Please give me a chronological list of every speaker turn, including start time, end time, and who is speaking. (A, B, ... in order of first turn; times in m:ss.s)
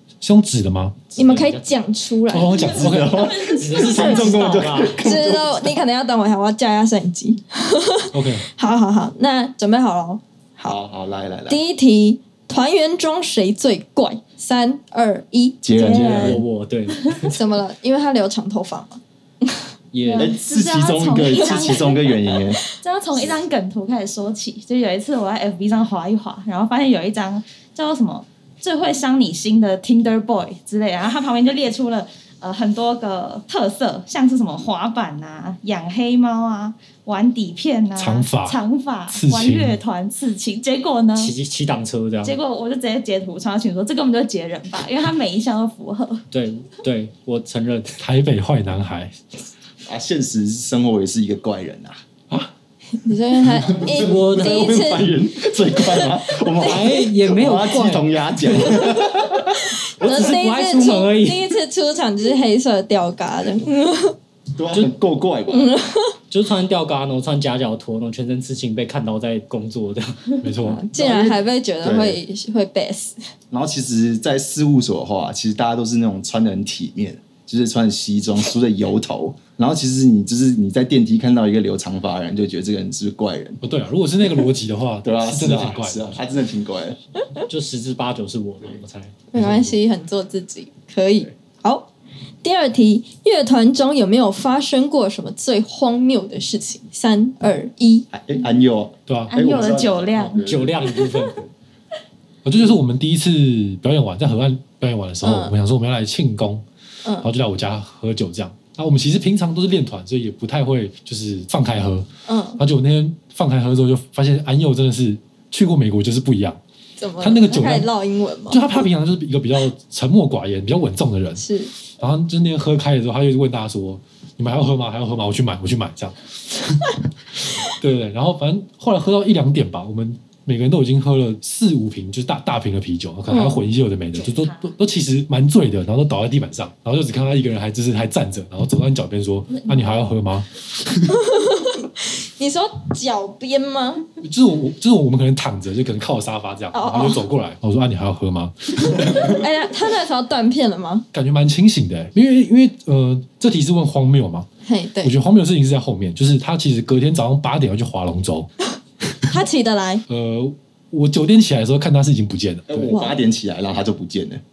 0:00.2-0:01.2 A
0:01.1-0:01.8 B
0:01.2-0:02.7 C
0:02.3-0:03.3 A
0:02.6-0:05.7 D
0:03.4-0:04.2 E
0:03.6-0:05.0 B
0:05.0-0:10.8 C
0:08.1-0:08.5 A
0:10.6-0:11.6 D
0:11.5-0:15.6 C
0:15.6-0:16.4 D
0:15.7-0:16.4 E
0:15.9-0:17.4 B
0:17.3-0:20.3 C
0:19.9-0:20.4 B
0:20.2-0:22.6 D
0:20.3-0:41.3 E
0:21.4-0:21.8 C
0:38.0-0:39.8 A
0:41.1-0:42.4 B
0:42.2-0:46.2 E
0:46.3-0:48.0 B
0:48.0-0:49.1 A
0:49.8-0:52.0 D
0:53.0-0:56.1 C
0:53.7-1:00.3 D
0:53.9-0:54.9 B
0:56.5-0:58.9 B
0:59.6-1:04.2 C
1:00.0-1:01.6 B
1:04.6-1:05.7 D
1:05.5-1:06.2 C
1:06.3-1:10.4 B
1:10.4-1:10.8 A
1:10.6-1:13.2 C
1:10.9-1:12.2 D
1:13.5-1:23.6 D
1:23.6-1:26.2 A
1:25.0-1:27.0 D
1:27.4-1:29.2 B
1:29.3-1:31.9 C
1:29.3-1:29.7 A
1:32.4-1:38.0 C
1:38.1-1:41.5 D
1:39.1-1:39.3 A
1:39.3-1:41.2 E
1:40.4-1:41.4 B
1:42.4-1:46.6 A
1:45.2-1:45.5 C
1:47.0-1:47.3 C
1:47.2-1:52.1 A
1:52.2-1:52.6 C
1:52.6-1:56.6 A
1:57.0-1:58.8 C
1:57.2-1:57.9 A
1:58.5-2:21.2 A
2:01.4-2:01.7 C
2:13.3-2:13.6 C
2:14.1-2:14.7 E
2:19.5-2:20.0 E
2:21.1-2:24.0 C
2:24.2-2:29.4 A
2:26.7-2:27.2 C
2:29.2-2:31.0 C
2:31.1-2:34.5 A
2:34.6-2:35.1 C
2:35.0-2:38.5 A
2:39.3-2:40.0 C
2:40.1-2:42.9 A
2:42.7-2:44.4 D
2:42.9-2:43.2 C